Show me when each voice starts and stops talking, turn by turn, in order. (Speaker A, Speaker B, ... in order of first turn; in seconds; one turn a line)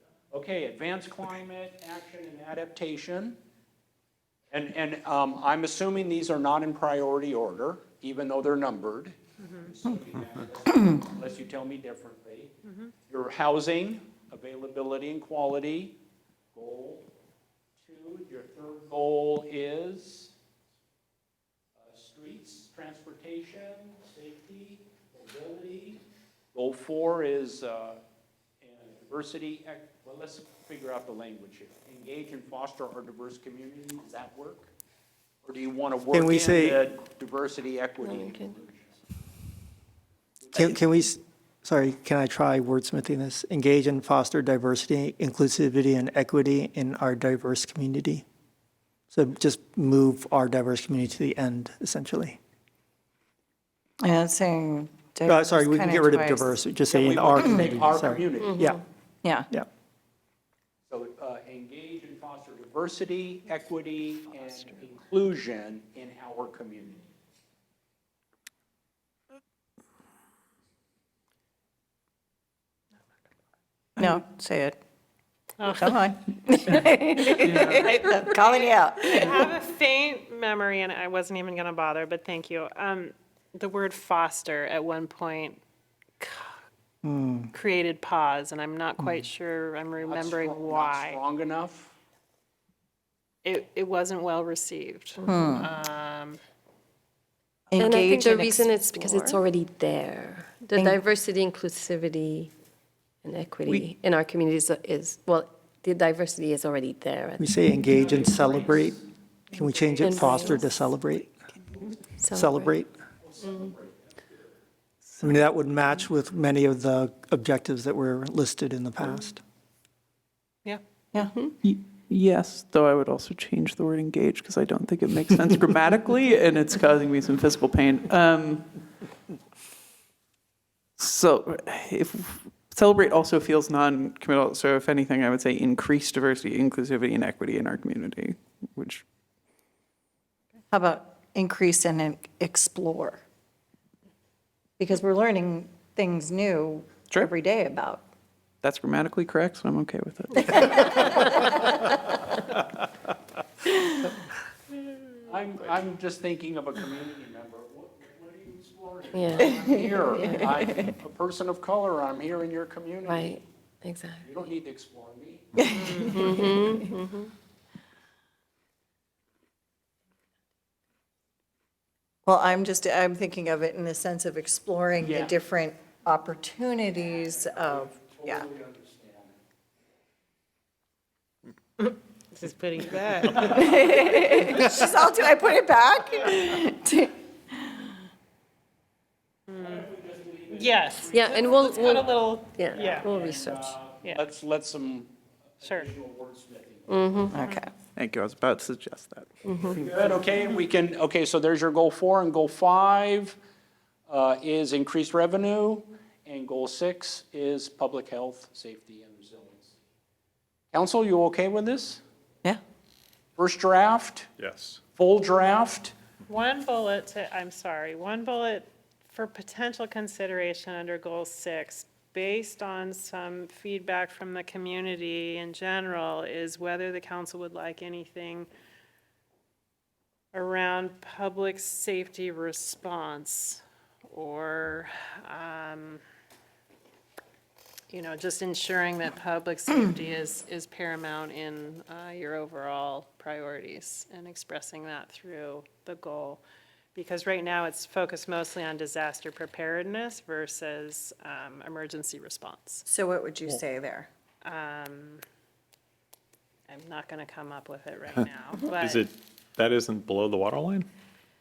Speaker A: 0.3-3.4
Speaker A: 4.5-12.6
Speaker B: 9.4-9.7
Speaker B: 12.7-12.9
Speaker A: 13.1-16.0
Speaker A: 16.5-17.1
Speaker A: 17.8-20.3
Speaker A: 21.8-26.0
Speaker A: 26.5-28.0
Speaker A: 28.6-34.7
Speaker A: 35.5-39.0
Speaker C: 36.1-36.9
Speaker D: 38.0-38.5
Speaker A: 40.4-40.8
Speaker C: 40.5-48.2
Speaker C: 49.1-52.4
Speaker E: 54.0-56.6
Speaker C: 55.3-58.8
Speaker A: 56.9-58.8
Speaker D: 58.4-58.8
Speaker A: 60.9-67.1
Speaker E: 74.0-74.8
Speaker B: 75.6-76.1
Speaker E: 75.8-79.5
Speaker B: 76.7-85.6
Speaker B: 86.2-86.6
Speaker C: 87.0-87.5
Speaker B: 87.5-91.2
Speaker A: 90.0-92.0
Speaker B: 93.4-96.4
Speaker D: 95.2-95.5
Speaker E: 95.3-95.7
Speaker E: 97.7-99.2
Speaker D: 97.8-102.5
Speaker D: 103.2-107.6
Speaker C: 107.4-111.3
Speaker A: 107.9-109.0
Speaker A: 109.7-110.4
Speaker D: 110.0-110.7
Speaker D: 112.2-112.7
Speaker C: 112.3-112.9
Speaker A: 113.2-114.3
Speaker D: 113.4-113.7
Speaker C: 115.2-119.4
Speaker F: 121.6-128.7
Speaker F: 131.0-139.0
Speaker E: 140.7-143.2
Speaker E: 144.8-148.1
Speaker F: 148.6-151.1
Speaker E: 150.5-151.7
Speaker A: 155.2-163.4
Speaker D: 159.1-160.3
Speaker D: 163.1-164.2
Speaker A: 164.2-166.1
Speaker E: 165.6-166.8
Speaker B: 165.8-166.1
Speaker D: 166.1-167.3
Speaker E: 172.3-178.5
Speaker A: 175.0-175.3
Speaker A: 177.2-179.4
Speaker B: 182.4-183.5
Speaker A: 183.2-184.6
Speaker E: 183.3-187.9
Speaker B: 189.5-189.9
Speaker A: 189.6-197.0
Speaker B: 190.5-193.1
Speaker D: 191.1-193.8
Speaker B: 195.6-195.9
Speaker D: 196.9-197.3
Speaker E: 197.3-197.7
Speaker F: 198.0-199.4
Speaker D: 199.4-199.8
Speaker A: 199.6-203.4
Speaker A: 204.1-209.8
Speaker A: 210.7-212.0
Speaker A: 213.4-214.3
Speaker G: 214.4-214.8
Speaker A: 214.9-215.9
Speaker B: 216.3-228.5
Speaker B: 230.3-236.0
Speaker B: 237.9-246.4
Speaker B: 246.9-252.8
Speaker E: 252.9-254.1
Speaker B: 254.4-255.2
Speaker B: 256.7-259.1
Speaker G: 258.8-260.9